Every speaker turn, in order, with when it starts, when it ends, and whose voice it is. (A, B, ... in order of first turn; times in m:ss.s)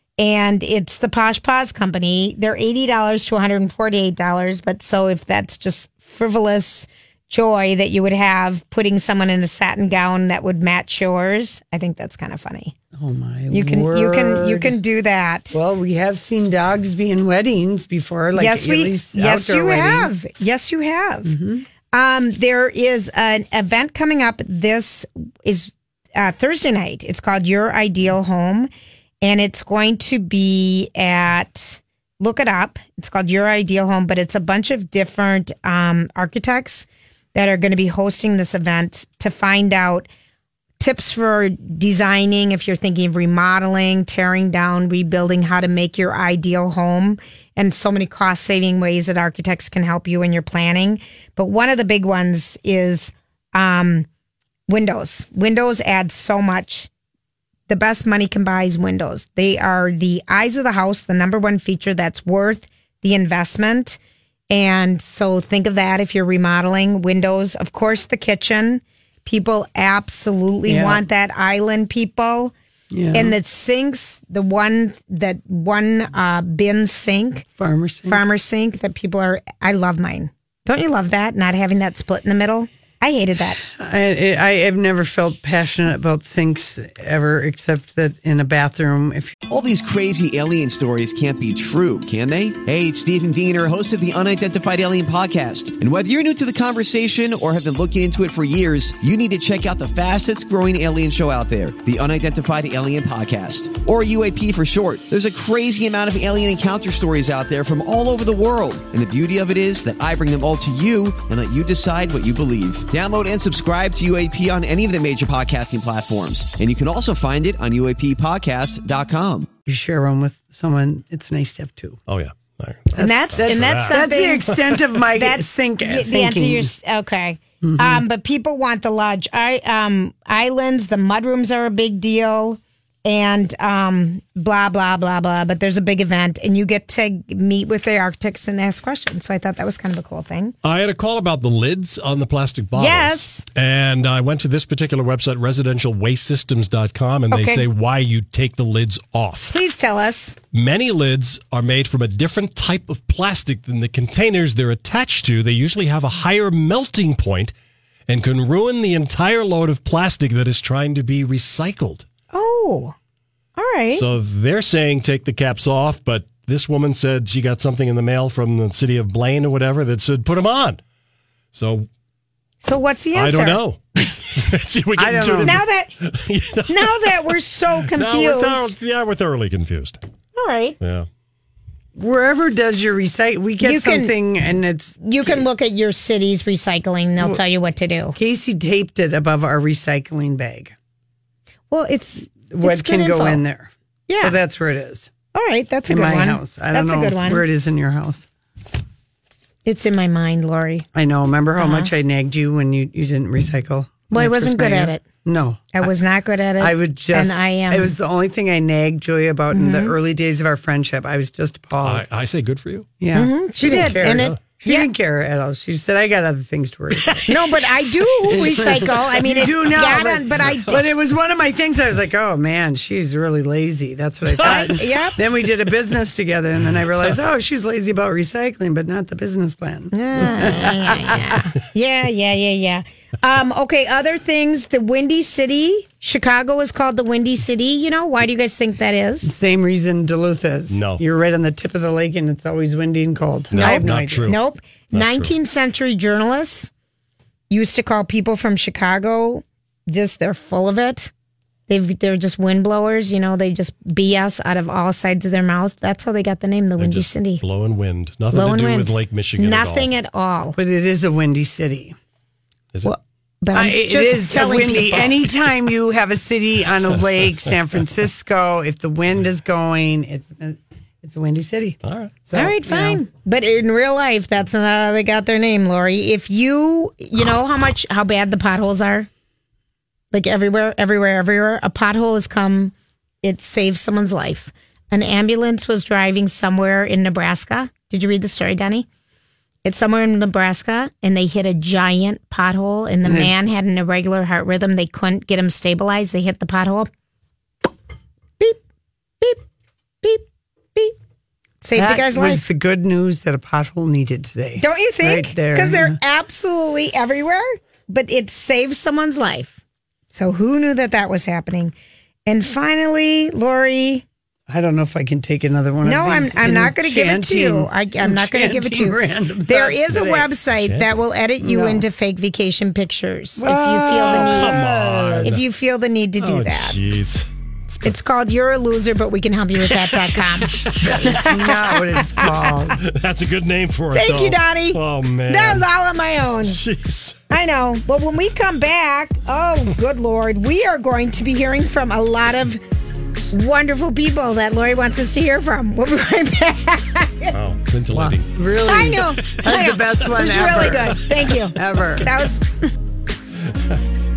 0:00.2-0:12.8 A
0:13.0-0:14.8 B
0:13.5-0:15.6 A
0:15.5-0:20.1 B
0:18.4-0:21.4 A
0:21.3-0:21.6 B
0:21.9-0:28.7 A
0:29.2-0:40.1 A
0:40.8-0:54.1 A
0:54.7-0:56.9 A
0:57.7-1:04.0 A
1:04.5-1:12.5 A
1:10.7-1:11.0 B
1:12.9-1:13.4 B
1:13.1-1:17.5 A
1:17.6-1:18.2 B
1:18.1-1:23.6 A
1:23.8-1:29.4 B
1:29.5-1:59.5 C
1:59.7-2:02.0 B
2:02.1-2:04.0 D
2:02.9-2:06.7 B
2:03.0-2:20.6 A
2:07.6-2:08.0 B
2:20.6-2:29.6 D
2:22.8-2:23.5 A
2:27.3-2:27.7 A
2:29.5-2:30.4 A
2:30.5-2:37.5 D
2:38.1-2:42.1 D
2:42.3-2:43.0 A
2:43.6-2:44.0 A
2:44.0-2:50.8 D
2:51.5-2:51.9 D
2:52.6-2:53.6 A
2:53.2-2:57.2 D
2:55.0-2:55.6 B
2:55.4-2:55.9 A
2:56.7-2:58.7 A
2:57.9-3:00.0 D
3:00.4-3:00.8 A
3:00.8-3:01.1 D
3:02.0-3:05.4 B
3:03.6-3:04.2 A
3:05.0-3:08.2 A
3:08.2-3:10.7 B
3:11.7-3:13.4 A
3:12.5-3:13.7 B
3:14.1-3:14.4 A
3:14.2-3:15.1 B
3:15.3-3:17.5 A
3:15.9-3:18.3 B
3:19.6-3:20.9 A
3:21.0-3:25.9 B
3:21.6-3:21.9 A
3:24.1-3:25.0 A
3:25.7-3:28.0 A
3:26.6-3:32.1 B
3:29.5-3:30.0 A
3:31.8-3:32.9 D
3:33.0-3:51.4 B
3:33.1-3:34.9 A
3:33.7-3:34.4 D
3:37.3-3:40.8 A
3:40.5-3:40.8 D
3:44.4-3:45.2 A
3:49.9-3:59.3 A
3:59.2-4:04.3 B
4:00.7-4:01.0 D
4:03.5-4:04.4 D
4:03.6-4:06.7 A
4:04.9-4:05.3 D
4:07.5-4:11.1 A
4:11.7-4:17.4 A
4:16.8-4:19.9 D
4:18.3-4:20.6 A
4:20.6-4:22.0 B
4:22.8-4:25.2 A
4:23.5-4:33.0 B
4:31.8-4:32.1 D
4:32.3-4:39.1 A
4:40.1-4:48.9 A
4:49.6-4:56.9 A
4:53.0-4:53.3 B
5:00.0-5:01.0 A
5:01.6-5:02.4 A
5:01.8-5:06.0 B
5:04.6-5:09.6 A
5:10.1-5:11.7 A
5:12.3-5:14.1 A
5:14.5-5:20.3 B
5:15.8-5:24.6 A
5:20.6-5:20.9 D
5:21.4-5:21.8 B
5:23.4-5:25.4 B
5:24.0-5:25.4 D
5:25.2-5:26.8 A
5:26.2-5:27.3 D
5:27.8-5:32.7 A
5:29.7-5:31.0 D
5:30.8-5:32.8 B
5:32.8-5:35.6 D
5:33.9-5:36.6 A
5:36.5-5:37.2 D
5:37.3-5:42.6 A
5:43.3-5:47.4 A
5:47.3-5:48.3 D
5:47.9-5:52.1 B
5:48.7-5:52.7 A